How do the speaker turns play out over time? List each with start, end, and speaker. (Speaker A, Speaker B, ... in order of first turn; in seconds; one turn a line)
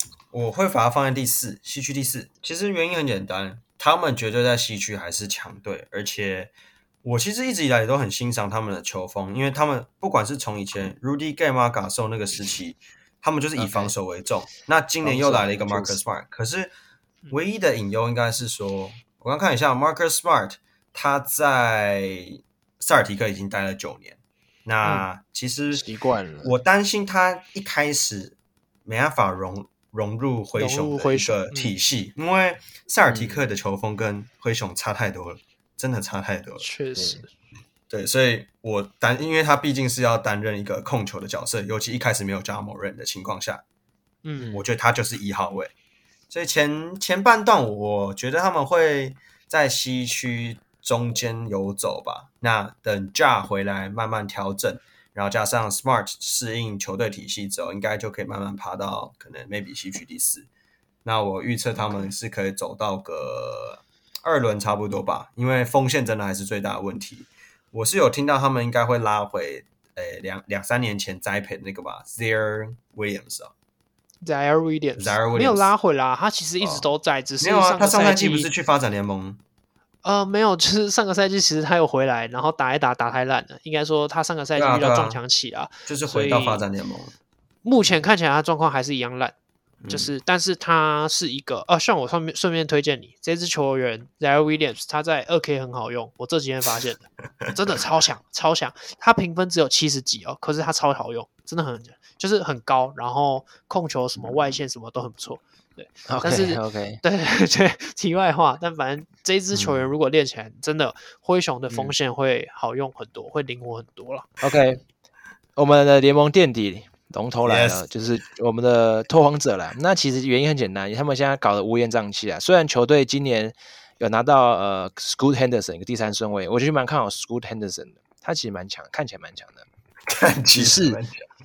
Speaker A: 0.3-6.5
Speaker A: 7.0-16.7
Speaker B: 13.6-13.9
Speaker B: 15.0-16.0
Speaker A: 17.3-25.9
Speaker B: 25.7-26.5
Speaker A: 26.4-36.6
Speaker C: 30.5-31.7
Speaker B: 33.1-33.5
Speaker C: 36.6-37.3
Speaker A: 37.9-43.6
Speaker C: 44.2-44.5
Speaker A: 44.5-45.7
Speaker A: 46.3-60.5
Speaker A: 61.0-73.5
Speaker C: 61.7-62.1
Speaker C: 74.2-78.5
Speaker A: 75.0-75.7
Speaker A: 77.4-79.4
Speaker C: 80.0-86.6
Speaker A: 84.5-85.2
Speaker A: 85.8-87.1
Speaker C: 87.6-89.3
Speaker A: 89.8-90.1
Speaker C: 89.9-114.3
Speaker B: 106.1-107.0
Speaker A: 109.5-109.9
Speaker B: 114.4-114.8
Speaker B: 115.5-129.7
Speaker A: 117.4-117.9
Speaker A: 130.1-131.2
Speaker B: 130.6-131.0